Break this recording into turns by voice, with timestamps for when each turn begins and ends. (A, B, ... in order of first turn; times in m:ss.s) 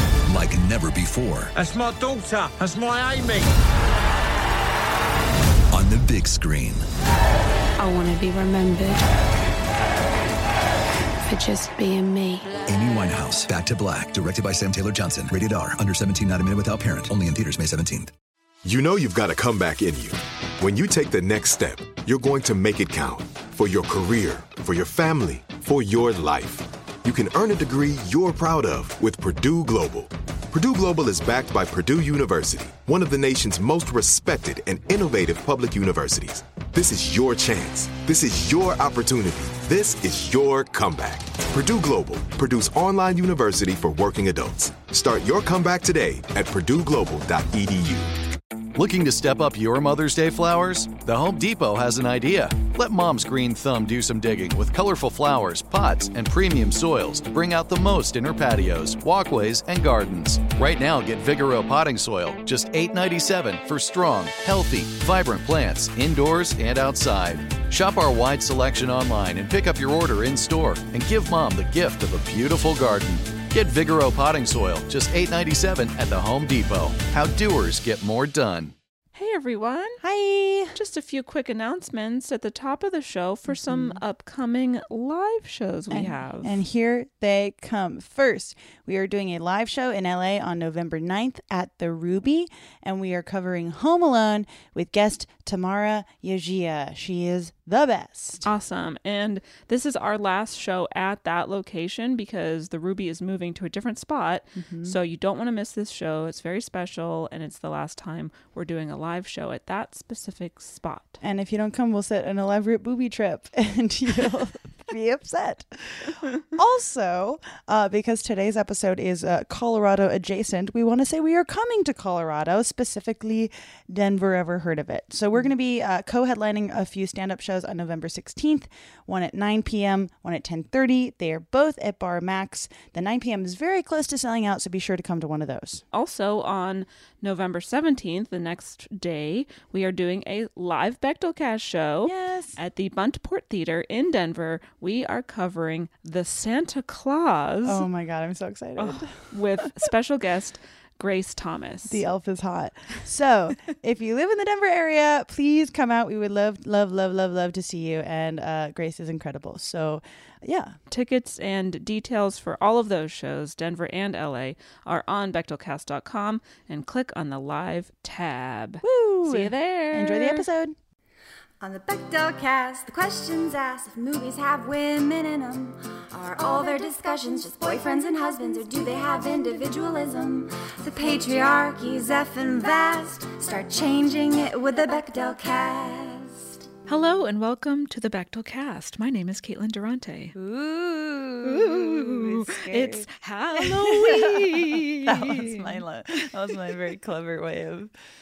0:00.3-0:01.5 A
0:01.5-0:03.5 B
0:05.7-0:06.8 A
0:07.8-0:09.0 C
0:11.2-0:12.6 C
0:12.6-0:18.1 A
0:18.6-0:48.1 D
0:48.7-1:18.7 E
1:19.1-1:20.0 F
1:20.0-1:20.8 G
1:20.7-1:26.6 F
1:23.5-1:24.0 G
1:25.9-1:38.4 G
1:38.4-1:51.2 F
1:44.6-1:45.0 G
1:51.2-2:15.8 G
2:15.9-2:27.8 F
2:22.0-2:22.6 G
2:27.6-2:29.6 G
2:28.8-2:32.0 F
2:31.9-2:40.8 G
2:40.9-2:50.4 F
2:48.8-2:50.8 G
2:51.6-3:06.7 H
3:06.9-3:10.4 F
3:10.3-3:17.9 G
3:11.4-3:15.8 F